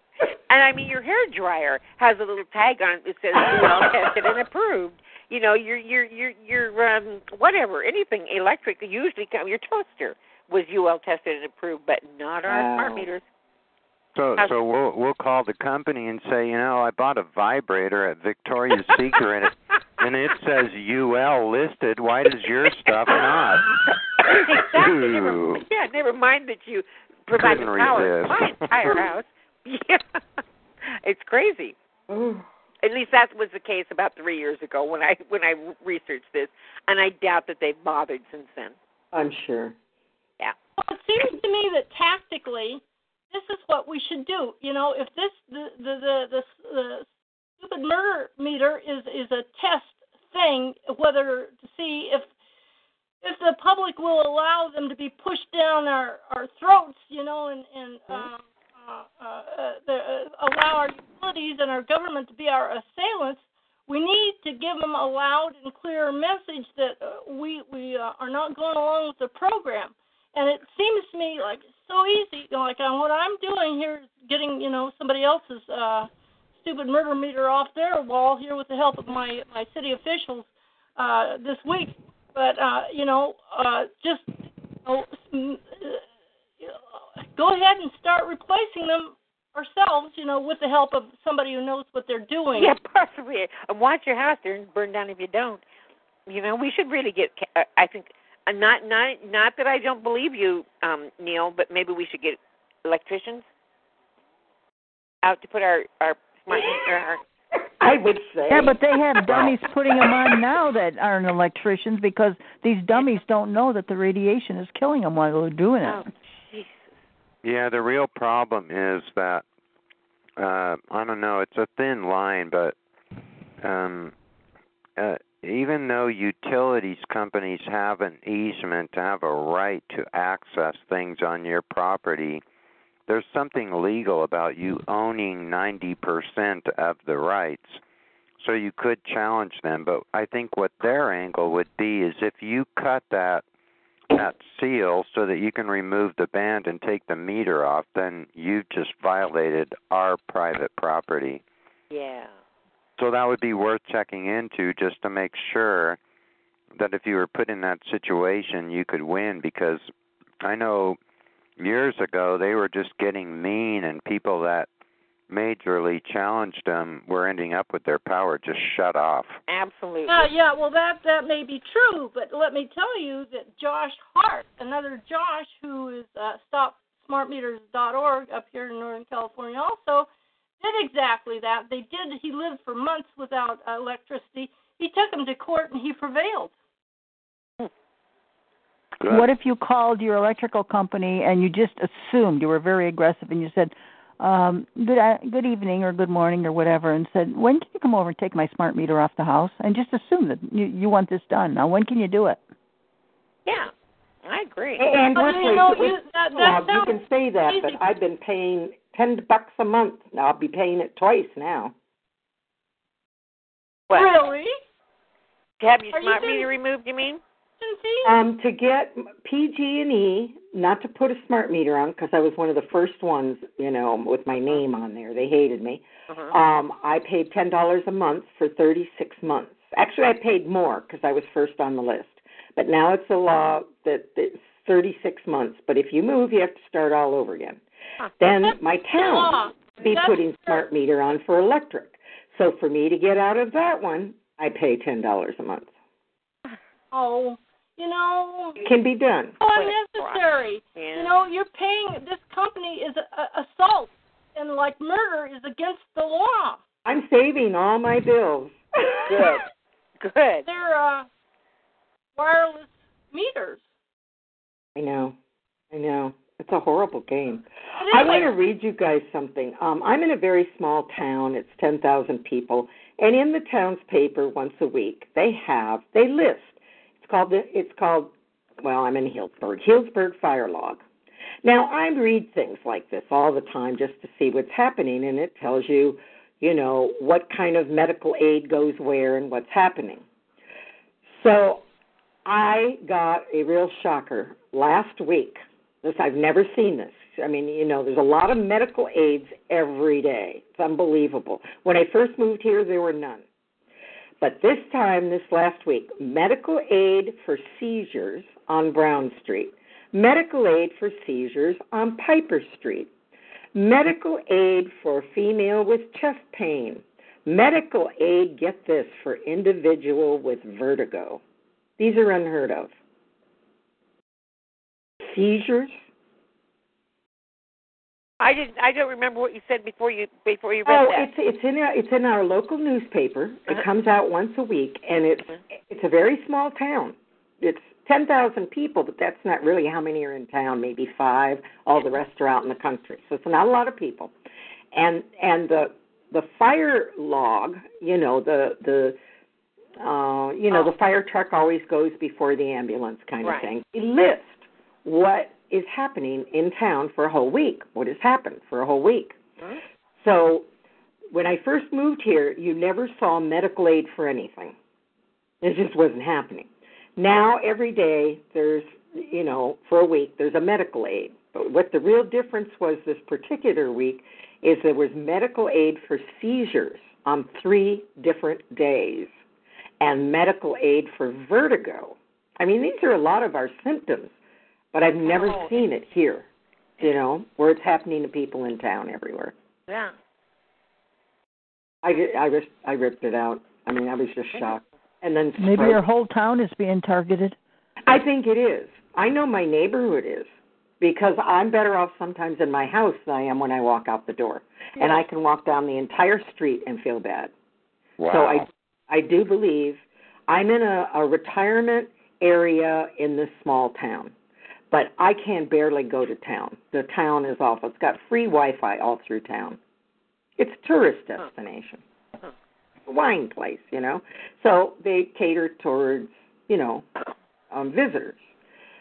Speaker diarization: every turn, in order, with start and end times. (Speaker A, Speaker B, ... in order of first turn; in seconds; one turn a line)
Speaker A: 0.5-13.2
Speaker B: 3.4-4.0
Speaker B: 12.5-13.1
Speaker C: 14.2-23.7
Speaker C: 24.3-25.6
Speaker A: 24.3-30.4
Speaker C: 27.4-29.0
Speaker A: 31.0-31.8
Speaker B: 32.1-32.5
Speaker A: 32.8-38.8
Speaker B: 39.1-39.8
Speaker D: 40.8-47.1
Speaker D: 47.6-52.3
Speaker D: 53.2-84.3
Speaker D: 84.9-86.0
Speaker D: 87.3-92.7
Speaker A: 92.6-95.6
Speaker A: 96.3-103.5
Speaker A: 105.2-107.2
Speaker B: 106.5-106.9
Speaker B: 107.8-109.5
Speaker E: 108.5-116.0
Speaker A: 115.8-116.9
Speaker C: 117.4-119.4
Speaker C: 120.4-122.8
Speaker C: 123.6-124.2
Speaker C: 125.0-132.4
Speaker C: 133.1-137.8
Speaker C: 138.4-143.4
Speaker C: 144.1-151.4
Speaker A: 151.9-152.3
Speaker C: 153.0-156.0
Speaker C: 156.8-159.9
Speaker C: 160.4-161.0
Speaker C: 161.6-164.7
Speaker C: 165.3-169.4
Speaker A: 169.5-170.3
Speaker D: 170.1-180.1
Speaker D: 180.6-186.5
Speaker C: 189.0-189.3
Speaker E: 189.1-202.4
Speaker A: 204.2-204.9
Speaker B: 204.8-211.7
Speaker D: 205.1-207.8
Speaker A: 213.9-214.2
Speaker D: 213.9-214.6
Speaker A: 215.6-217.2
Speaker D: 215.9-216.5
Speaker D: 217.6-218.2
Speaker B: 218.0-237.6
Speaker B: 238.2-245.7
Speaker D: 239.0-240.6
Speaker D: 246.9-248.6
Speaker B: 248.6-249.4
Speaker D: 249.4-256.6
Speaker A: 249.5-250.2
Speaker A: 250.7-251.1
Speaker B: 256.9-259.4
Speaker A: 259.1-259.4
Speaker A: 260.0-260.5
Speaker D: 260.5-261.1
Speaker D: 262.2-263.6
Speaker B: 264.8-265.2
Speaker B: 265.7-280.8
Speaker D: 267.8-268.3
Speaker B: 281.4-290.0
Speaker B: 291.1-291.6
Speaker B: 292.2-303.2
Speaker B: 304.2-312.9
Speaker B: 313.6-321.2
Speaker B: 321.8-322.7
Speaker B: 325.0-325.8
Speaker A: 328.2-331.1
Speaker B: 330.7-344.1
Speaker B: 344.7-349.0
Speaker B: 349.8-359.2
Speaker A: 353.2-353.5
Speaker B: 360.0-360.5
Speaker B: 361.1-364.6
Speaker B: 365.4-379.1
Speaker B: 379.8-384.1
Speaker B: 384.7-386.3
Speaker B: 386.8-389.3
Speaker A: 389.7-389.9
Speaker B: 391.8-395.8
Speaker E: 395.4-397.4
Speaker B: 397.9-400.3
Speaker B: 400.8-407.3
Speaker C: 408.0-408.5
Speaker B: 408.1-414.1
Speaker B: 414.7-419.6
Speaker B: 420.4-421.8
Speaker B: 422.9-426.9
Speaker B: 427.5-428.3